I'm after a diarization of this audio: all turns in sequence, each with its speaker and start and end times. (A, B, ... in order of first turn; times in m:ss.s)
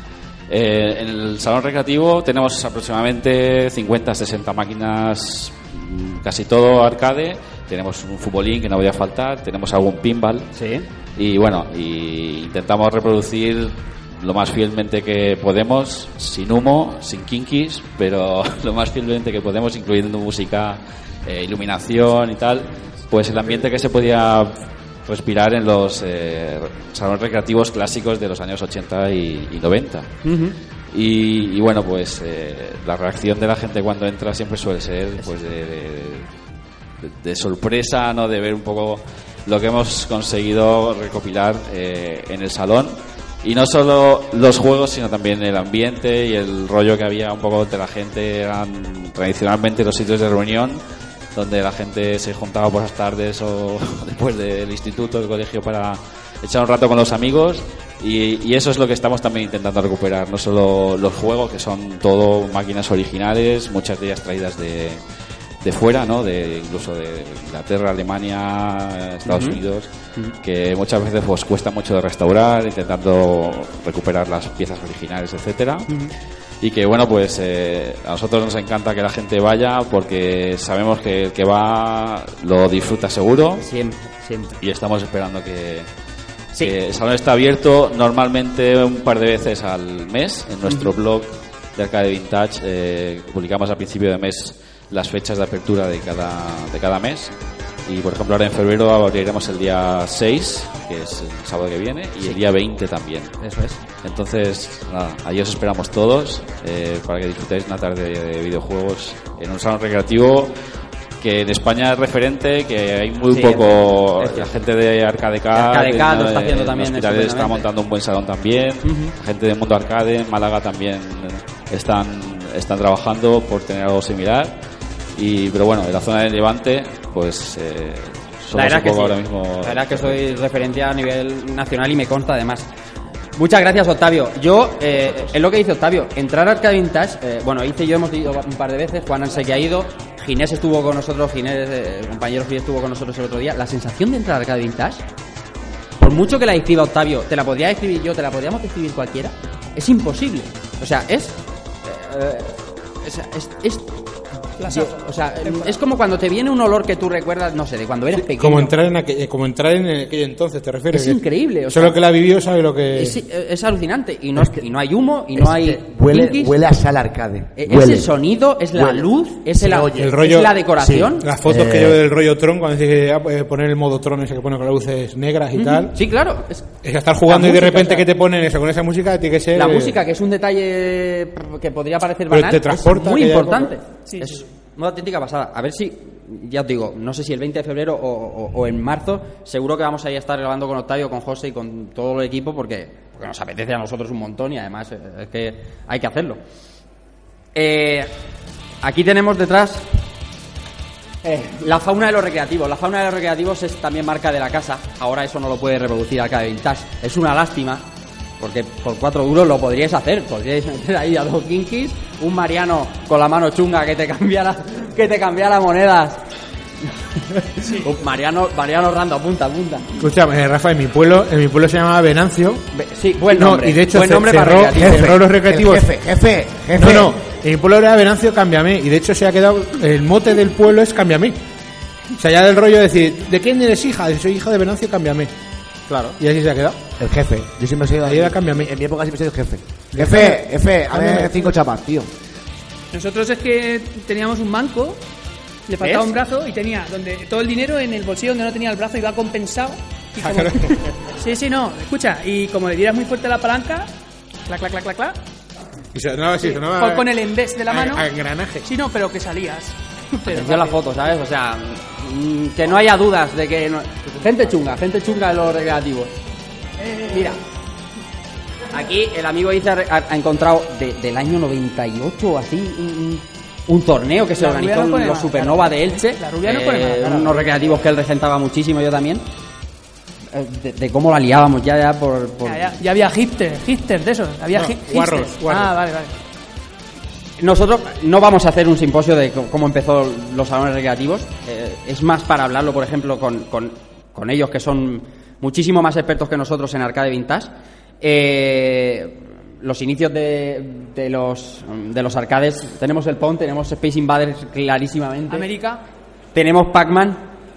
0:00.5-0:10.5 A
0:10.5-0:10.8 B
0:11.2-0:24.5 A
0:25.0-0:30.1 A
0:30.2-0:30.5 B
0:30.9-0:36.3 A
0:37.0-0:50.8 A
0:51.3-1:05.0 A
1:05.6-1:15.9 A
1:09.2-1:09.6 B
1:16.6-1:23.6 A
1:23.6-1:24.6 B
1:24.6-1:25.9 A
1:26.6-1:37.3 A
1:37.8-1:43.3 A
1:43.4-1:43.8 B
1:44.0-1:50.5 A
1:51.2-2:04.6 A
1:53.3-1:54.5 B
1:55.5-1:57.7 B
1:58.8-1:59.1 B
2:05.1-2:10.2 A
2:08.5-2:12.7 B
2:13.4-2:25.0 B
2:26.0-2:38.7 B
2:34.6-2:35.8 C
2:38.2-2:43.2 D
2:40.9-2:42.0 B
2:42.9-2:46.6 B
2:44.4-2:44.6 E
2:45.3-2:48.1 E
2:47.6-2:51.3 B
2:48.7-2:50.2 E
2:49.9-2:50.6 D
2:50.8-2:52.0 E
2:51.2-2:55.9 D
2:55.5-2:56.7 B
2:56.8-3:00.0 D
2:57.2-2:58.1 B
2:59.5-3:16.4 B
3:02.3-3:03.7 D
3:04.1-3:04.4 C
3:17.5-3:18.1 B
3:18.8-3:19.9 B
3:21.2-3:27.8 B
3:28.4-3:36.2 B
3:37.2-3:39.9 B
3:37.6-3:37.9 C
3:40.0-3:42.6 D
3:42.7-3:45.2 B
3:43.2-3:45.8 D
3:44.8-3:47.2 E
3:46.8-3:51.4 D
3:52.2-3:55.3 D
3:55.9-3:56.2 B
3:56.2-3:56.8 D
3:57.0-4:02.1 E
3:58.0-3:58.7 D
3:59.9-4:01.4 D
4:02.9-4:05.0 C
4:05.7-4:13.9 C
4:05.8-4:06.1 B
4:10.2-4:10.9 D
4:14.5-4:15.2 C
4:15.9-4:18.7 D
4:16.4-4:18.1 C
4:18.6-4:20.8 C
4:20.3-4:26.1 B
4:26.8-4:27.4 B
4:28.7-4:39.2 B
4:34.4-4:37.8 C
4:40.3-4:42.8 B
4:42.4-4:46.1 C
4:44.5-4:45.8 D
4:47.4-5:05.5 B
5:05.3-5:05.8 C
5:06.3-5:07.2 B